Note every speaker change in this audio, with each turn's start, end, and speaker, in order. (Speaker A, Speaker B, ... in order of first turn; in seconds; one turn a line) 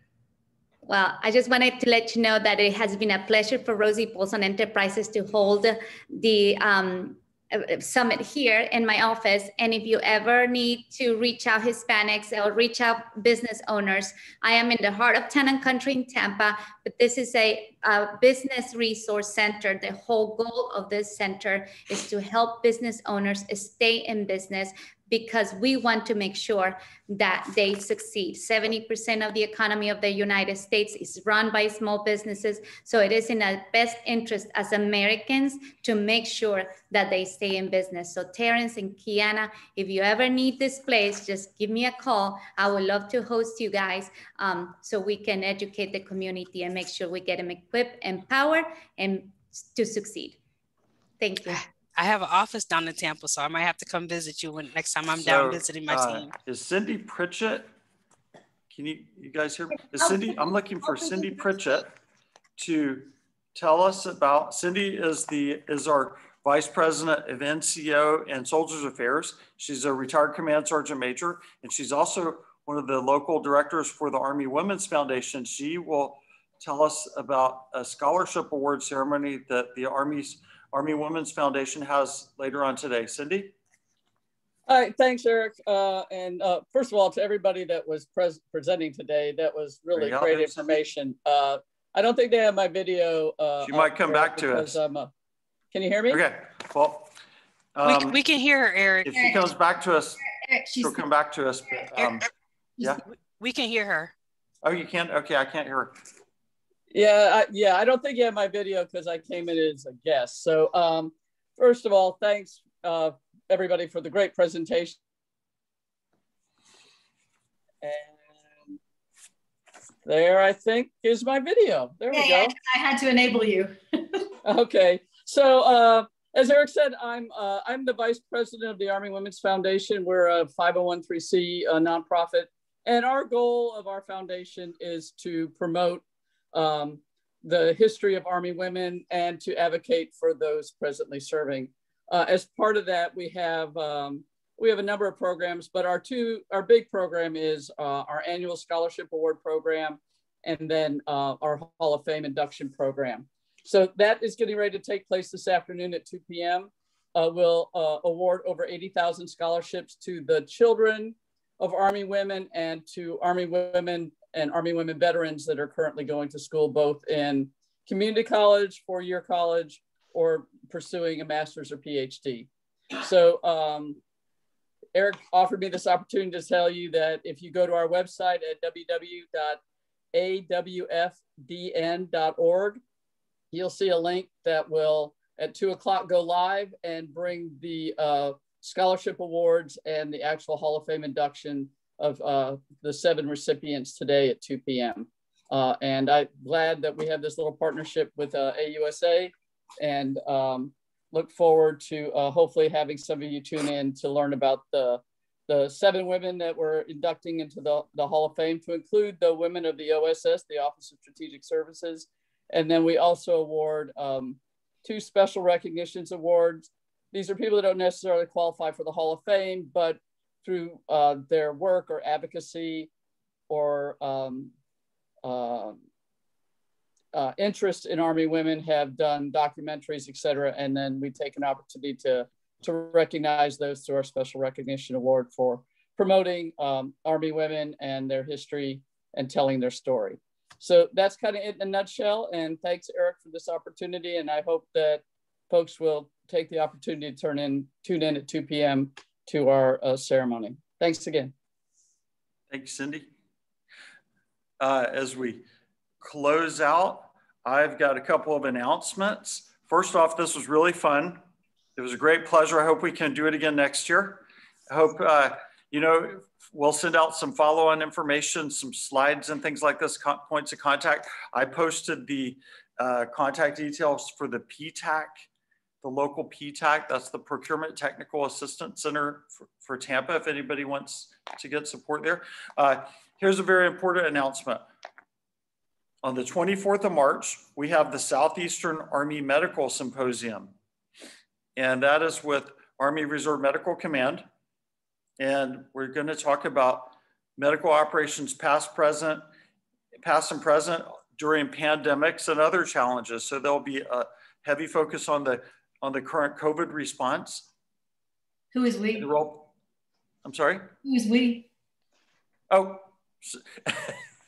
Speaker A: 0.8-50.4
Speaker A: 51.2-51.6
Speaker B: 51.5-56.3
Speaker C: 55.1-57.7
Speaker C: 58.7-61.9
Speaker C: 62.6-83.5
Speaker D: 84.7-95.1
Speaker C: 89.9-90.8
Speaker C: 93.6-94.8
Speaker D: 95.7-96.2
Speaker C: 96.1-97.1
Speaker C: 97.7-98.2
Speaker B: 97.8-99.2
Speaker C: 99.0-100.2
Speaker E: 99.1-99.4
Speaker E: 100.2-101.0
Speaker C: 100.8-102.3
Speaker B: 103.4-104.1
Speaker C: 104.6-106.0
Speaker D: 106.9-115.0
Speaker D: 117.8-118.8
Speaker D: 120.0-122.5
Speaker E: 122.1-124.3
Speaker D: 124.4-174.0
Speaker D: 174.9-179.6
Speaker D: 180.1-182.8
Speaker D: 183.5-222.9
Speaker D: 223.5-224.5
Speaker D: 225.2-225.8
Speaker D: 227.1-251.3
Speaker C: 252.5-253.1
Speaker C: 254.6-255.4
Speaker C: 256.0-261.2
Speaker C: 261.8-275.2
Speaker C: 275.8-284.6
Speaker C: 286.0-290.5
Speaker C: 291.6-294.2
Speaker C: 295.2-299.2
Speaker C: 300.0-307.5
Speaker E: 308.5-309.1
Speaker C: 308.9-309.5
Speaker C: 310.2-310.7
Speaker E: 310.8-311.5
Speaker C: 312.5-314.0